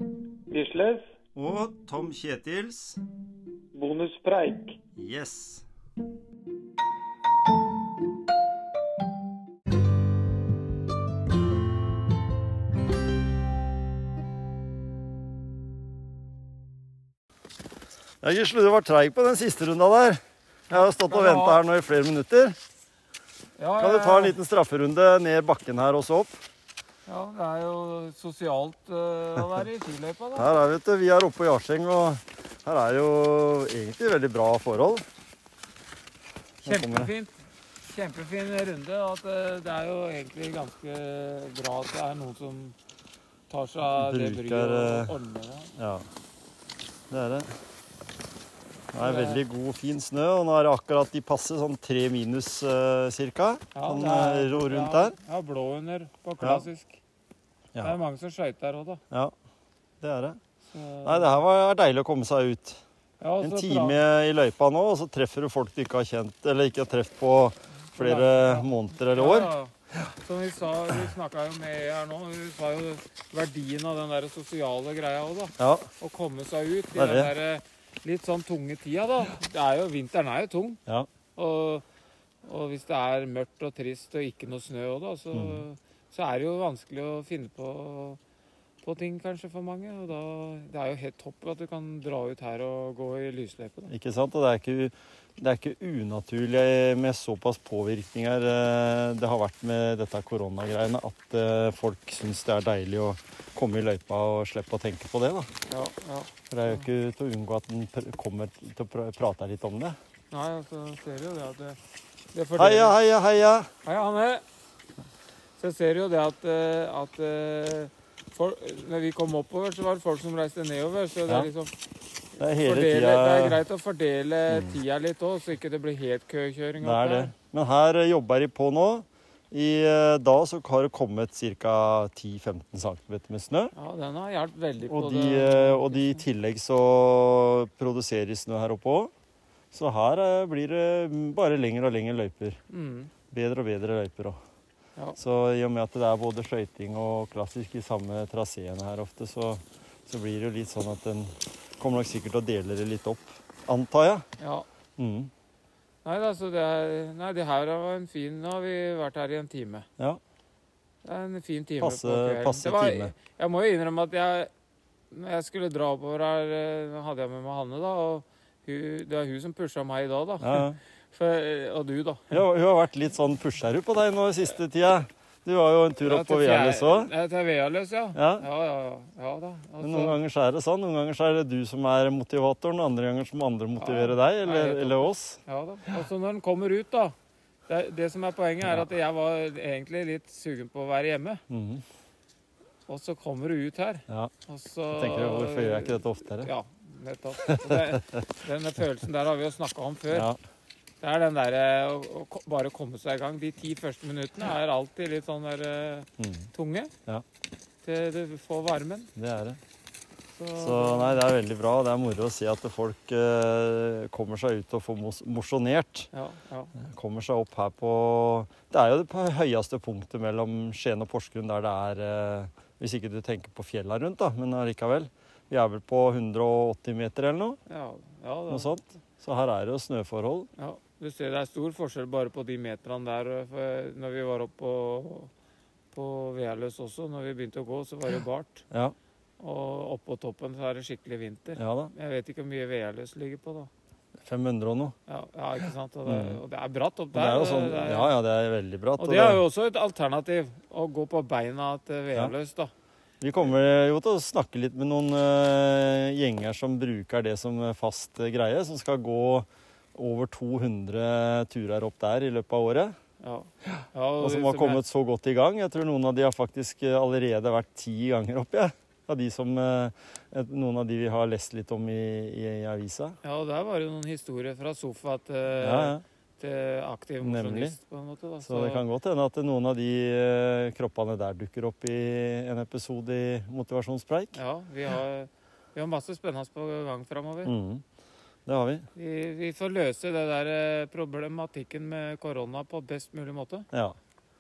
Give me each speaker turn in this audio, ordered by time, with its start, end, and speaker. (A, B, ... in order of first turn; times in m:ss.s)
0:00.5-0:01.0 A
0:01.3-0:03.0 B
0:03.7-0:04.8 A
0:05.0-0:05.6 B
0:18.2-0:22.6 B
0:20.7-0:21.6 A
0:23.6-0:24.4 A
0:23.8-0:26.4 B
0:27.0-0:30.5 A
0:30.3-0:35.0 B
0:36.6-0:42.8 A
0:36.6-0:37.1 B
0:43.5-0:45.7 A
0:43.9-0:45.2 B
0:45.8-0:46.0 B
0:47.1-0:47.5 B
0:48.9-0:55.1 B
0:49.0-0:49.4 A
0:53.7-0:57.0 A
0:56.4-0:56.6 B
0:57.8-0:59.0 A
1:00.0-1:00.4 B
1:00.7-1:01.4 A
1:01.0-1:02.8 B
1:03.2-1:04.0 A
1:03.4-1:09.5 B
1:07.9-1:20.8 A
1:15.6-1:15.9 B
1:16.9-1:17.3 B
1:21.4-1:21.8 A
1:22.4-1:28.2 A
1:25.3-1:25.6 B
1:28.8-1:33.9 A
1:33.9-1:45.5 B
1:45.7-1:46.9 A
1:46.5-1:50.0 B
1:50.3-1:51.8 A
1:52.3-1:53.0 A
1:52.6-1:53.7 B
1:53.8-1:54.4 A
1:55.6-2:01.7 A
2:02.4-2:03.6 B
2:02.6-2:07.3 A
2:04.5-2:04.8 B
2:06.8-2:13.7 B
2:13.7-2:16.2 A
2:14.9-2:19.1 B
2:19.7-2:22.6 B
2:22.7-2:23.1 A
2:23.3-2:24.4 B
2:25.2-2:34.2 B
2:34.4-2:34.6 A
2:35.0-2:35.3 B
2:36.0-2:39.8 A
2:41.0-2:44.5 A
2:41.8-2:43.2 B
2:45.1-2:52.4 A
2:50.4-2:50.8 B
2:52.3-2:57.1 B
2:56.0-3:00.2 A
2:58.1-2:58.4 B
2:59.8-3:05.4 B
3:03.8-3:07.1 A
3:07.7-3:11.4 A
3:11.5-3:11.8 B
3:12.9-3:20.3 A
3:14.9-3:16.5 B
3:17.5-3:18.0 B
3:20.1-3:20.4 B
3:21.0-3:26.9 A
3:26.2-3:26.5 B
3:27.8-3:29.1 A
3:29.2-3:29.6 B
3:30.4-3:31.2 A
3:30.6-3:36.1 B
3:36.1-3:36.7 A
3:36.8-3:47.6 B
3:47.7-3:48.8 A
3:48.5-3:50.5 B
3:50.6-3:55.3 A
3:55.9-3:58.6 A
3:59.4-4:03.7 A
4:01.6-4:01.9 B
4:04.2-4:04.9 B
4:05.1-4:08.1 A
4:06.0-4:06.4 B
4:07.1-4:09.4 B
4:09.0-4:12.7 A
4:13.2-4:23.0 B
4:23.2-4:24.8 A
4:24.2-4:33.2 B
4:33.2-4:38.8 A
4:35.6-4:36.0 B
4:37.2-4:37.8 B
4:38.4-4:44.4 B
4:44.3-4:47.5 A
4:47.4-4:47.8 B
4:48.4-4:48.9 B
4:48.9-4:53.7 A